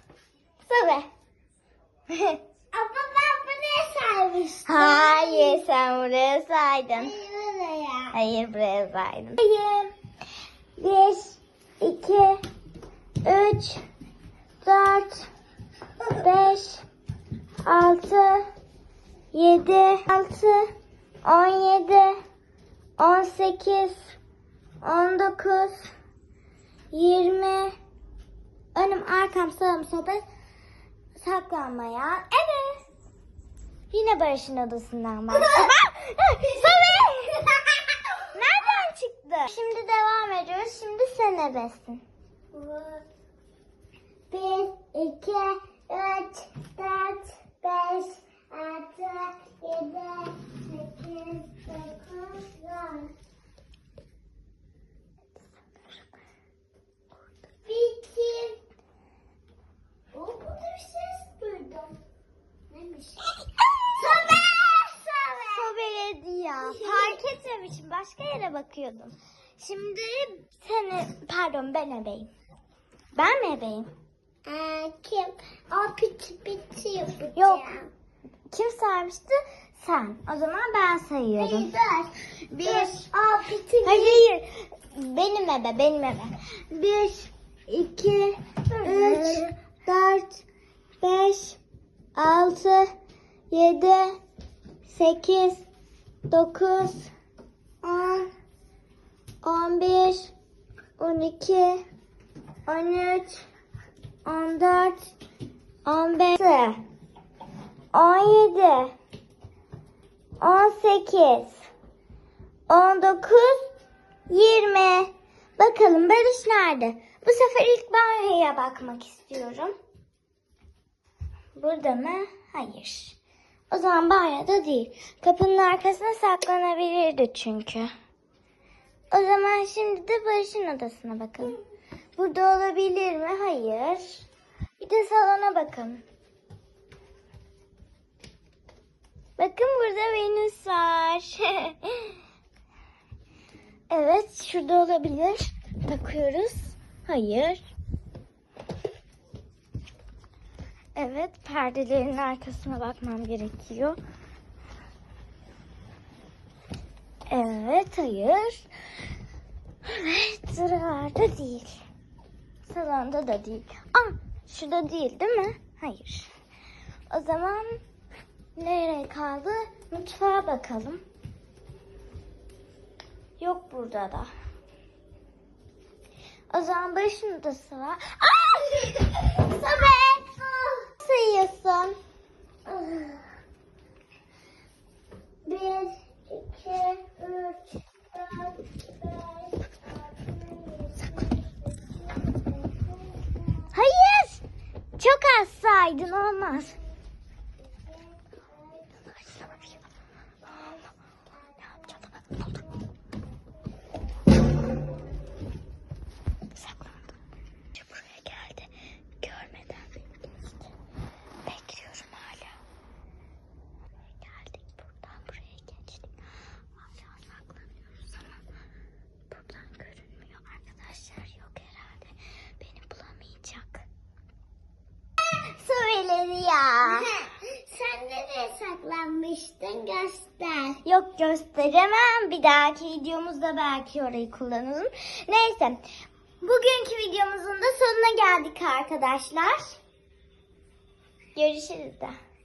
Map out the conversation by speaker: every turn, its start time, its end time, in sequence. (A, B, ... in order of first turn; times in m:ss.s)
0:00.6-0:01.1 A
0:02.1-0:02.4 A
0:02.7-0:05.6 B
0:04.6-0:07.1 A
0:06.9-0:08.1 B
0:08.1-0:09.9 A
0:10.8-0:12.4 A
0:13.2-0:13.8 A
0:14.6-0:15.3 A
0:16.0-0:16.8 A
0:17.6-0:18.5 A
0:19.3-0:20.7 A
0:21.2-0:22.2 A
0:23.0-0:24.1 A
0:24.8-0:25.9 A
0:26.9-0:27.7 A
0:28.7-0:30.2 A
0:31.2-0:32.8 A
0:33.9-0:36.9 A
0:36.4-0:38.2 B
0:38.3-0:42.0 A
0:42.5-0:43.0 B
0:44.3-0:53.1 B
0:57.6-0:58.6 B
1:00.1-1:02.0 B
1:02.7-1:05.7 B
1:03.5-1:03.9 A
1:05.5-1:12.3 A
1:06.6-1:07.2 B
1:13.1-1:13.9 A
1:14.4-1:17.9 B
1:17.4-1:17.7 A
1:18.5-1:21.7 A
1:21.4-1:24.2 B
1:22.5-1:23.0 A
1:23.8-1:30.4 A
1:28.7-1:29.4 B
1:31.0-1:31.6 A
1:32.2-1:32.9 A
1:33.5-1:34.2 A
1:34.8-1:35.6 A
1:36.3-1:37.1 A
1:37.8-1:38.3 A
1:39.4-1:40.3 A
1:41.0-1:41.8 A
1:42.7-1:43.4 A
1:44.2-1:45.1 A
1:45.8-1:46.8 A
1:47.9-1:48.9 A
1:50.4-1:51.6 A
1:52.7-1:53.7 A
1:54.3-1:59.7 A
2:01.6-2:03.2 A
2:03.7-2:07.9 A
2:09.1-2:11.6 A
2:12.2-2:14.3 A
2:14.8-2:16.0 A
2:19.4-2:22.2 A
2:23.9-2:27.6 A
2:31.0-2:34.0 A
2:37.3-2:38.7 A
2:39.8-2:41.8 A
2:42.6-2:46.3 A
2:47.1-2:47.8 A
2:48.6-2:51.0 A
2:53.4-2:54.3 A
2:56.5-3:00.1 A
2:59.4-3:00.8 B
3:00.8-3:02.0 A
3:02.6-3:03.2 B
3:05.4-3:13.7 B
3:13.7-3:14.4 A
3:15.0-3:16.8 A
3:17.8-3:19.6 B
3:19.1-3:19.6 A
3:20.5-3:20.8 B
3:21.4-3:21.9 B
3:21.9-3:22.5 A
3:26.5-3:27.1 A
3:27.7-3:30.5 A
3:31.4-3:32.6 A
3:34.2-3:36.1 A
3:36.8-3:38.4 A
3:39.3-3:43.8 A
3:45.3-3:47.1 A
3:46.8-3:50.8 B
3:50.8-3:55.8 A
3:56.4-3:59.8 A
4:01.3-4:02.2 A